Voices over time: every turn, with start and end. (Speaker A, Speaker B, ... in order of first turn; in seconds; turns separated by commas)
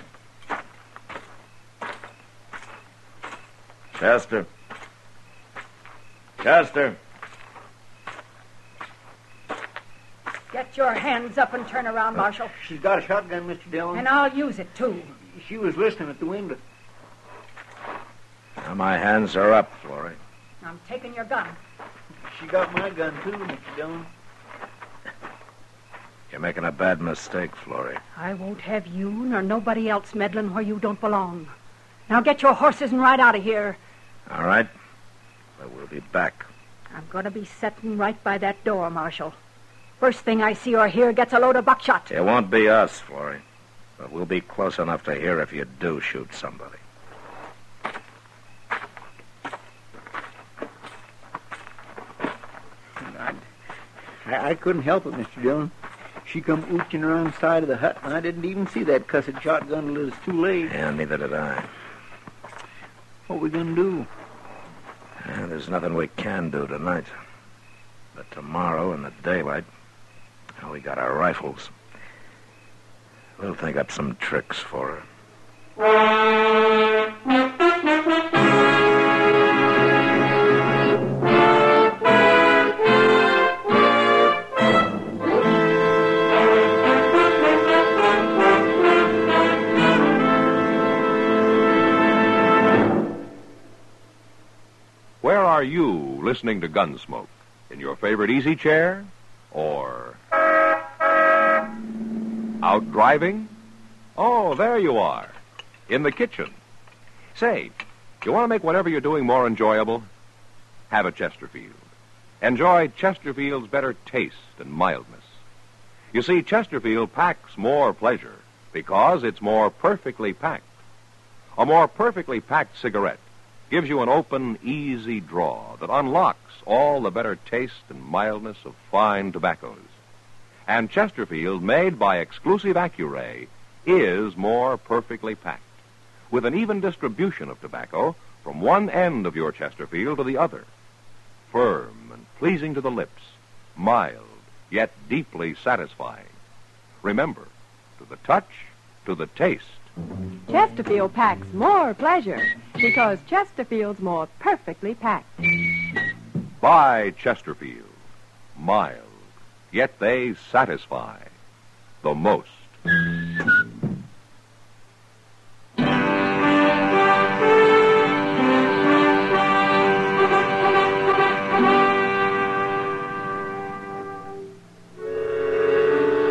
Speaker A: 4.0-4.5, Speaker A: 6.4-7.0, Speaker B: 10.5-12.6, Speaker C: 12.6-14.1, Speaker B: 13.9-15.1, Speaker C: 15.2-16.6, Speaker A: 18.6-20.2, Speaker B: 20.6-21.6, Speaker C: 22.3-24.1, Speaker A: 26.3-28.0, Speaker B: 28.1-31.5, Speaker B: 32.1-33.8, Speaker A: 34.3-34.7, Speaker A: 35.6-36.5, Speaker B: 36.9-39.3, Speaker B: 40.0-42.1, Speaker A: 42.1-43.4, Speaker A: 44.0-46.8, Speaker C: 53.0-53.5, Speaker C: 54.2-55.7, Speaker C: 56.2-60.7, Speaker A: 60.6-61.7, Speaker C: 63.3-64.1, Speaker A: 65.2-67.2, Speaker A: 68.1-69.7, Speaker A: 70.6-71.7, Speaker A: 73.4-75.0, Speaker D: 95.2-100.2, Speaker D: 102.6-103.5, Speaker D: 104.2-105.3, Speaker D: 105.9-106.5, Speaker D: 107.3-110.1, Speaker D: 110.9-111.8, Speaker D: 112.4-115.3, Speaker D: 116.1-120.7, Speaker D: 121.5-129.9, Speaker D: 130.7-135.7, Speaker D: 136.3-140.7, Speaker D: 141.5-146.3, Speaker D: 147.0-149.9, Speaker E: 150.5-155.4, Speaker D: 156.6-158.0, Speaker D: 158.6-159.2, Speaker D: 159.7-161.3, Speaker D: 162.0-162.7